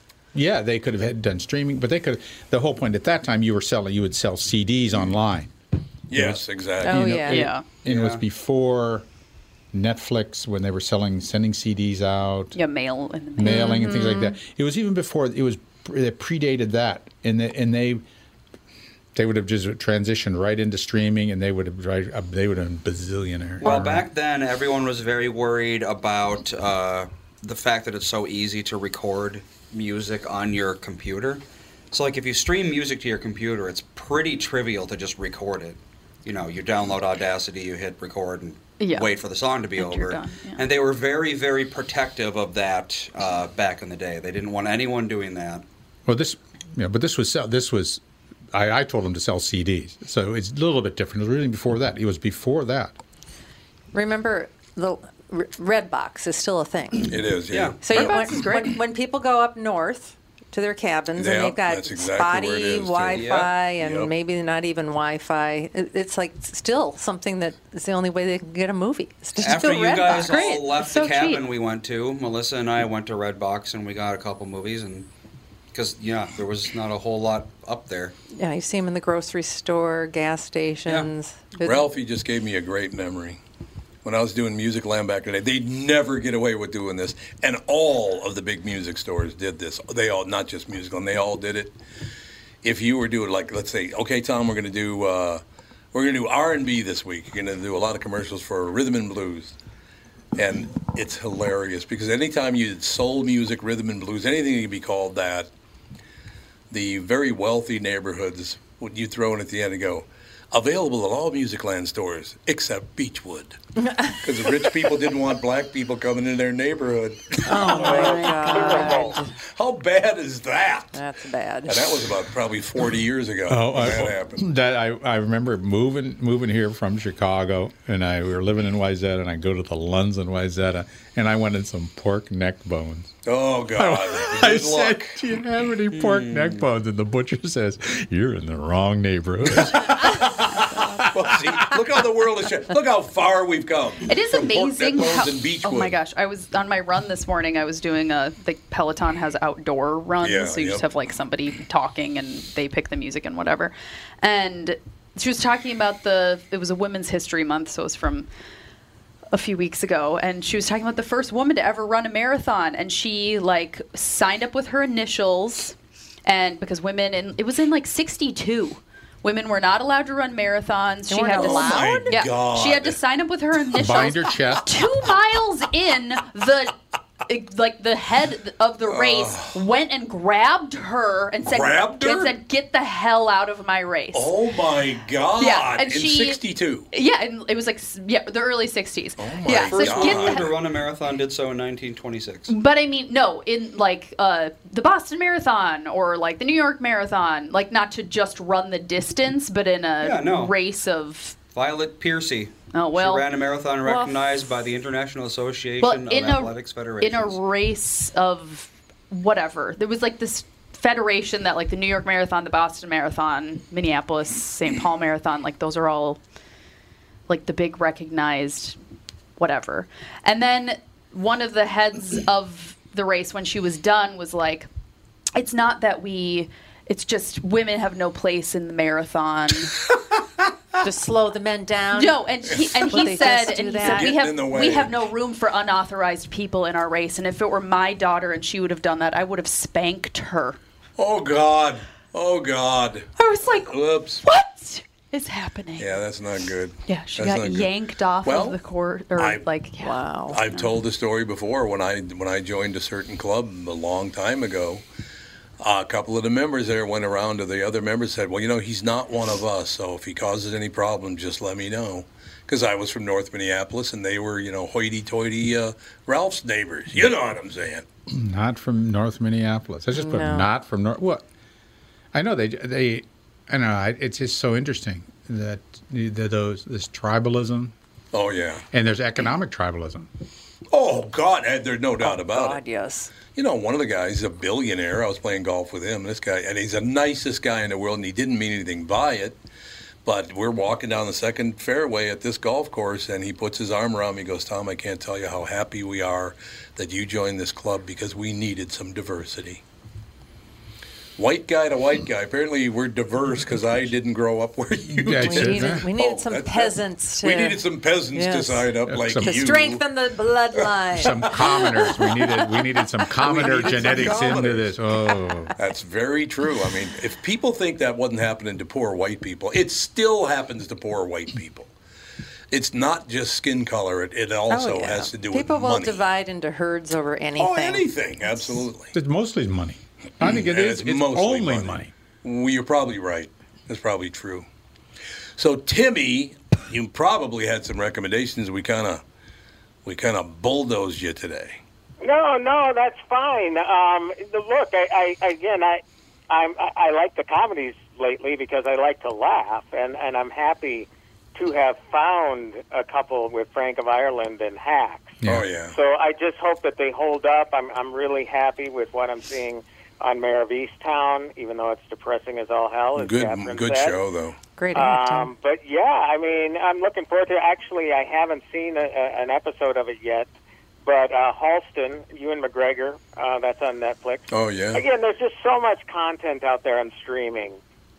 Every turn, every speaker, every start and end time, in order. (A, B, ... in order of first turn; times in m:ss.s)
0:00.3-0:05.5 A
0:06.1-0:07.1 B
0:06.1-0:09.0 A
0:06.8-0:07.5 C
0:07.3-0:07.6 D
0:07.8-0:08.2 E
0:09.7-0:12.6 A
0:12.5-0:14.1 D
0:13.4-0:18.0 A
0:13.4-0:14.4 C
0:19.1-0:24.0 A
0:23.6-0:23.9 C
0:23.6-0:45.6 E
0:38.8-0:39.2 D
0:39.7-0:40.7 D
0:46.0-0:48.0 A
0:48.5-0:53.0 A
0:53.9-0:57.1 C
0:57.1-0:58.2 B
0:57.5-0:57.8 E
0:57.8-1:11.2 C
0:57.9-0:58.6 D
1:01.2-1:04.1 B
1:03.1-1:03.5 E
1:09.4-1:15.1 E
1:10.1-1:11.4 D
1:15.7-1:18.1 E
1:18.4-1:21.7 C
1:21.6-1:23.4 B
1:24.0-1:31.7 B
1:32.6-1:35.4 B
1:35.9-1:39.6 B
1:40.4-1:45.5 B
1:46.7-1:53.6 B
1:53.8-1:54.2 C
1:54.2-1:58.4 B
1:57.4-1:59.3 C
1:57.8-1:59.0 D
1:58.5-1:59.1 F
1:59.5-2:00.9 B
2:00.9-2:02.0 C
2:01.7-2:04.4 B
2:03.5-2:13.1 A
2:13.2-2:15.2 B
2:13.7-2:20.3 A
2:15.9-2:16.6 E
2:21.0-2:26.0 B
2:24.1-2:38.3 D
2:30.2-2:30.8 B
2:39.3-3:04.4 D
2:51.1-2:52.2 C
2:51.3-2:53.0 B
2:53.8-2:54.7 A
2:58.8-2:59.6 B
3:01.4-3:02.4 B
3:04.1-3:06.9 B
3:05.4-3:06.4 D
3:06.9-3:10.5 D
3:09.2-3:10.5 B
3:09.7-3:12.5 E
3:12.5-3:21.4 D
3:20.0-3:20.5 E
3:21.5-3:27.4 E
3:22.7-3:23.3 D
3:23.9-3:24.1 C
3:25.8-3:36.2 D
3:37.3-3:38.8 D
3:39.4-3:44.7 D
3:45.3-3:49.7 D
3:50.8-3:52.2 C
3:51.9-4:00.6 D
3:52.5-3:52.9 B
3:52.9-3:54.1 C
3:53.8-3:55.1 B
4:01.0-4:03.1 B
4:03.2-4:05.9 D
4:03.6-4:04.2 B
4:05.8-4:08.6 B
4:06.8-4:10.7 D
4:09.2-4:09.4 B
4:09.8-4:10.4 C
4:10.3-4:14.8 B
4:15.6-4:27.8 B
4:28.1-4:31.2 A
4:29.9-4:30.5 C
4:32.1-4:37.7 A
4:38.1-4:38.6 B
4:38.7-4:40.1 A
4:40.7-4:42.6 B
4:42.0-4:43.1 C
4:43.3-4:49.4 B
4:50.0-4:59.6 B
5:01.2-5:09.8 B
5:05.0-5:05.8 A
5:05.2-5:14.4 C
5:08.9-5:09.4 A
5:10.6-5:11.0 B
5:11.0-5:15.5 A
5:13.2-5:14.8 B
5:15.6-5:21.7 B
5:22.5-5:26.0 B
5:24.5-5:28.5 C
5:27.4-5:28.9 B
5:28.9-5:31.9 A
5:30.2-5:34.4 B
5:35.4-5:39.0 B
5:39.8-5:41.6 B
5:42.0-5:55.2 F
5:55.2-5:55.5 A
5:55.2-5:55.8 B
5:55.7-6:04.0 F
6:03.0-6:04.4 B
6:04.6-6:05.3 C
6:04.7-6:10.3 F
6:10.8-6:17.6 F
6:14.3-6:14.8 B